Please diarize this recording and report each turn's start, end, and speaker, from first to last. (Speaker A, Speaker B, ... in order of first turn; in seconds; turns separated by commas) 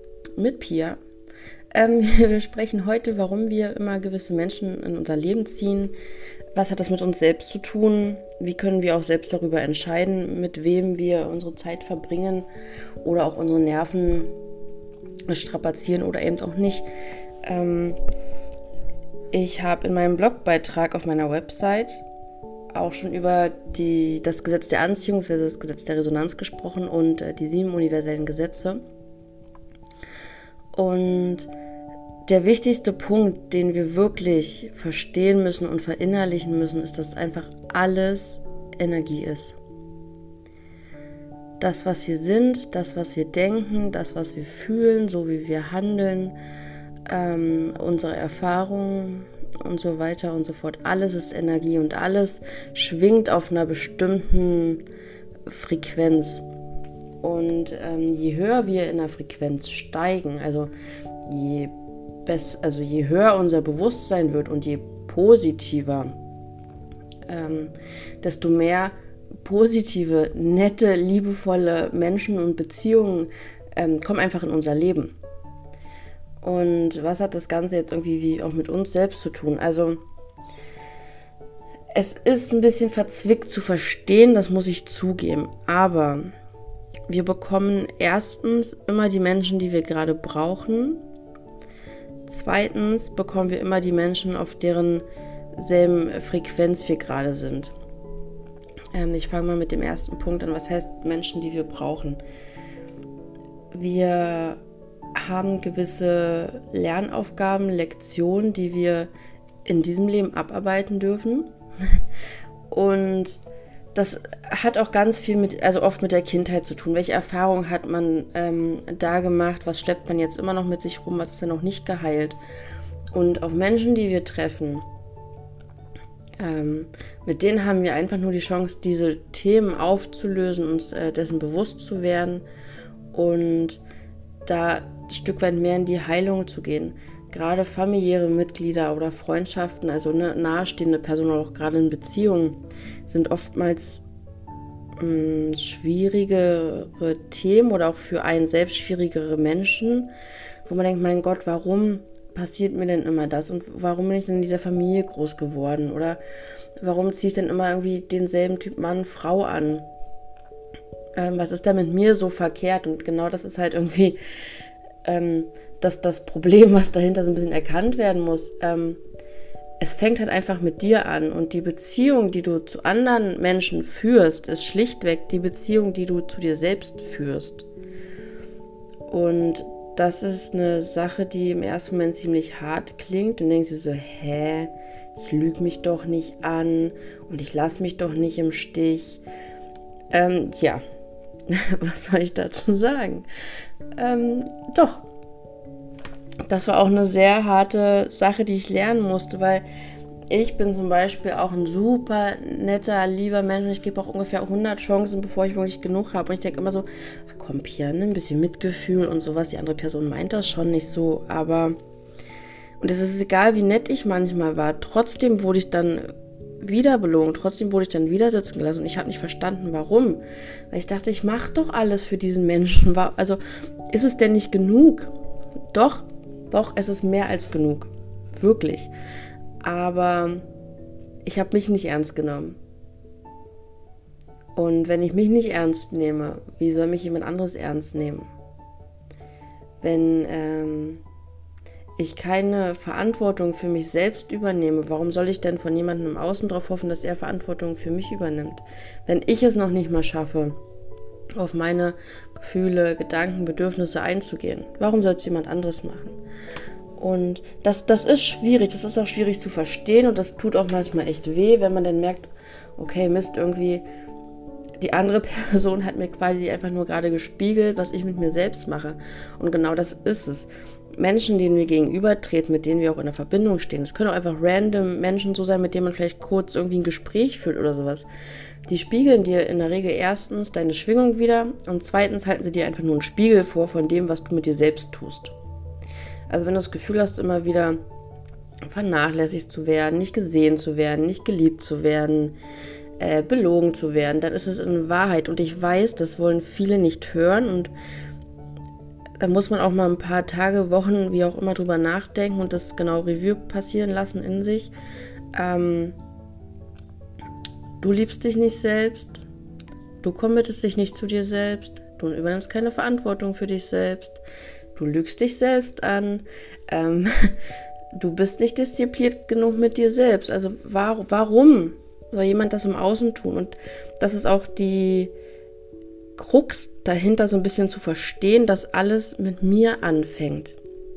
Speaker A: 0.4-1.0, Speaker A: 1.7-5.9, Speaker A: 6.5-12.5, Speaker A: 13.0-14.3, Speaker A: 15.3-16.9, Speaker A: 17.4-18.0, Speaker A: 19.3-22.0, Speaker A: 22.7-28.8, Speaker A: 30.7-31.5, Speaker A: 32.3-39.6, Speaker A: 41.6-46.4, Speaker A: 47.1-54.8, Speaker A: 55.5-56.5, Speaker A: 57.2-60.7, Speaker A: 61.3-61.7, Speaker A: 62.2-66.2, Speaker A: 67.3-75.1, Speaker A: 76.4-80.0, Speaker A: 82.0-86.3, Speaker A: 87.1-91.0, Speaker A: 92.3-95.0, Speaker A: 95.6-97.7, Speaker A: 98.9-102.2, Speaker A: 103.7-104.6, Speaker A: 105.2-109.1, Speaker A: 109.7-112.0, Speaker A: 112.7-113.4, Speaker A: 113.9-122.4, Speaker A: 123.1-124.9, Speaker A: 126.4-132.4, Speaker A: 133.1-133.8, Speaker A: 134.4-144.1, Speaker A: 145.0-150.1, Speaker A: 150.7-156.2, Speaker A: 156.8-159.9, Speaker A: 161.2-164.2, Speaker A: 165.1-169.0, Speaker A: 169.8-177.7, Speaker A: 179.1-189.2, Speaker A: 190.1-190.8, Speaker A: 191.5-193.3, Speaker A: 194.0-195.0, Speaker A: 196.5-199.7, Speaker A: 200.3-211.8, Speaker A: 212.8-223.4, Speaker A: 223.9-225.1, Speaker A: 225.7-228.9, Speaker A: 229.6-230.5, Speaker A: 231.2-232.6, Speaker A: 234.6-238.3, Speaker A: 239.8-241.0, Speaker A: 242.0-250.6, Speaker A: 251.4-256.2, Speaker A: 257.0-263.8, Speaker A: 264.8-278.1, Speaker A: 278.7-285.4, Speaker A: 286.3-287.8, Speaker A: 288.7-292.4, Speaker A: 293.0-297.7, Speaker A: 299.2-304.7, Speaker A: 305.3-306.0, Speaker A: 307.8-309.3, Speaker A: 310.0-314.2, Speaker A: 314.7-317.3, Speaker A: 317.9-325.1, Speaker A: 326.2-330.6